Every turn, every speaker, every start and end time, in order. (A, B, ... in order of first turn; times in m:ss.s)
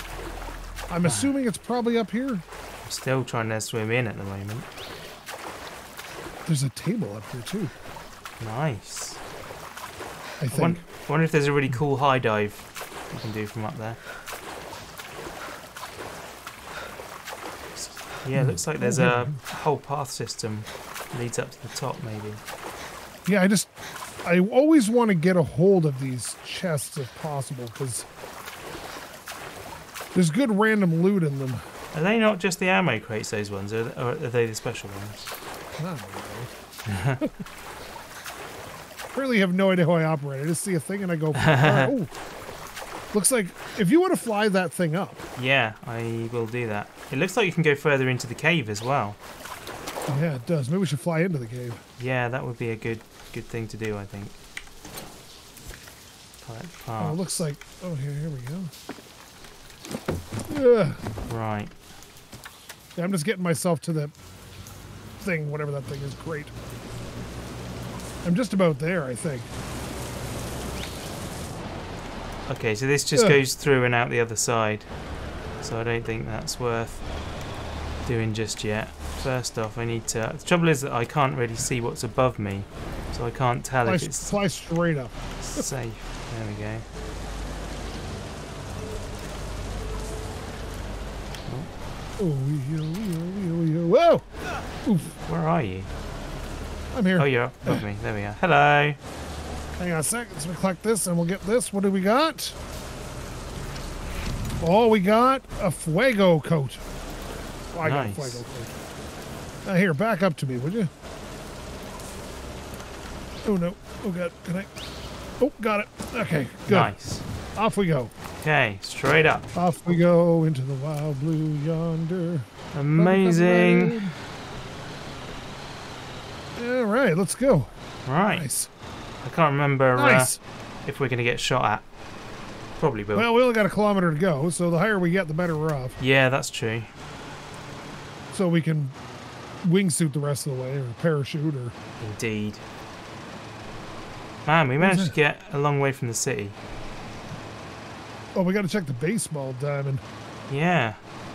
0:00.9-0:02.4 A
0:01.0-0:01.3 B
0:02.9-0:04.7 B
0:06.5-0:07.7 A
0:08.4-0:09.2 B
0:10.4-0:10.8 A
0:10.5-0:14.0 B
0:17.8-0:22.4 B
0:18.3-0:19.4 A
0:23.3-0:23.7 A
0:24.2-0:28.1 A
0:30.1-0:31.6 A
0:31.9-0:35.3 B
0:35.7-0:36.5 A
0:36.9-0:37.3 B
0:39.1-0:42.1 A
0:41.4-0:41.9 B
0:43.1-0:45.2 A
0:45.4-0:49.2 B
0:50.1-0:51.8 A
0:52.0-0:54.3 B
0:56.4-0:57.4 B
0:57.0-0:58.7 A
1:00.5-1:01.0 A
1:01.3-1:01.7 B
1:03.0-1:04.1 A
1:05.2-1:06.5 A
1:08.2-1:09.5 A
1:12.5-1:14.9 B
1:13.2-1:13.4 A
1:15.6-1:17.0 B
1:18.0-1:24.3 B
1:23.8-1:25.7 A
1:25.4-1:26.8 B
1:32.2-1:34.3 A
1:34.8-1:35.1 A
1:35.3-1:35.9 B
1:36.9-1:37.8 A
1:37.2-1:39.0 B
1:39.8-1:42.6 A
1:44.6-1:46.8 A
1:47.7-1:48.7 A
1:47.8-1:48.4 B
1:49.6-1:50.9 A
1:53.4-1:54.7 A
1:55.4-1:56.9 A
1:56.7-1:57.2 B
1:57.6-1:58.1 A
1:58.4-1:59.4 B
1:59.5-2:04.2 A
2:02.7-2:04.1 B
2:06.6-2:07.7 A
2:08.1-2:08.5 B
2:08.2-2:08.7 A
2:09.2-2:10.3 B
2:10.0-2:10.4 A
2:10.9-2:11.8 B
2:12.8-2:13.3 B
2:13.1-2:16.0 A
2:16.0-2:16.9 B
2:18.3-2:19.0 A
2:19.6-2:21.8 A
2:22.0-2:22.6 B
2:24.5-2:26.6 B
2:24.8-2:25.1 A
2:28.4-2:30.0 A
2:30.5-2:31.0 B